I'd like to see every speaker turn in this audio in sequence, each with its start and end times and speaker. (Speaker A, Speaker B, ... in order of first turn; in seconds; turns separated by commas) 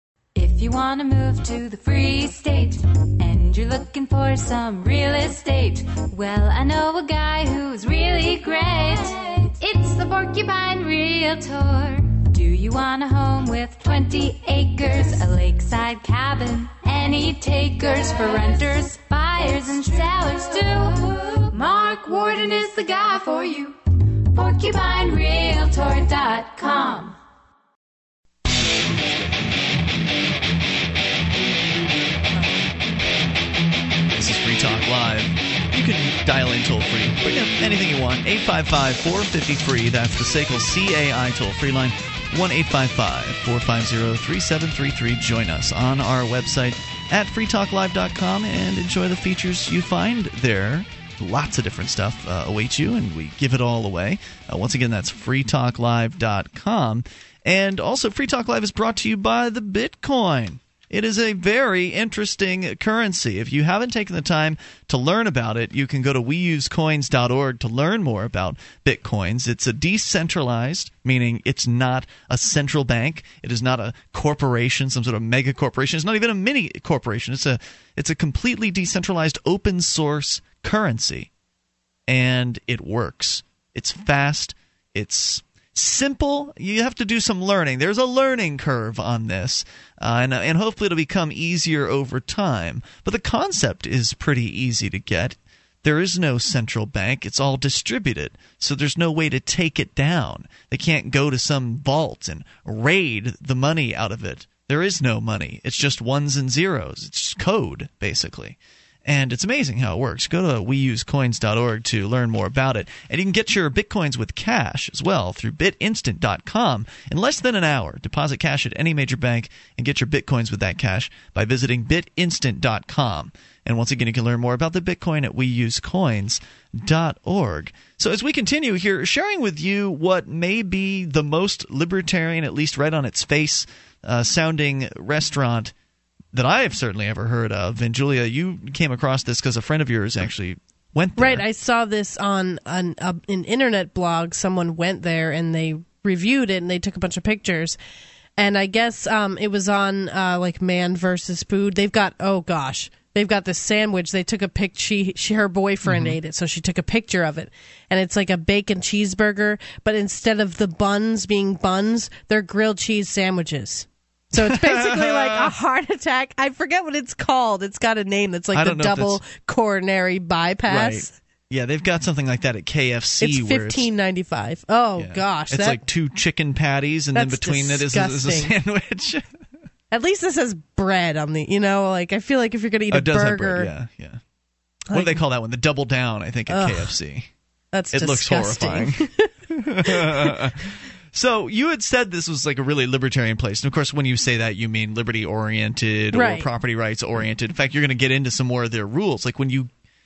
Speaker A: 0.3-23.8, Speaker A: 24.3-27.2, Speaker B: 34.1-81.3, Speaker B: 82.1-135.7, Speaker B: 136.3-141.4, Speaker C: 141.2-147.8, Speaker C: 148.4-171.1, Speaker B: 155.8-156.2, Speaker B: 164.3-165.5, Speaker B: 168.5-169.2, Speaker B: 170.7-173.9, Speaker C: 173.2-175.8, Speaker B: 175.0-179.3, Speaker C: 177.1-178.5, Speaker C: 179.9-183.7, Speaker B: 182.9-184.2, Speaker C: 184.9-185.2, Speaker B: 184.9-187.3, Speaker C: 186.5-186.9, Speaker C: 187.7-189.3, Speaker B: 187.9-199.7, Speaker C: 189.8-190.4, Speaker C: 196.1-196.5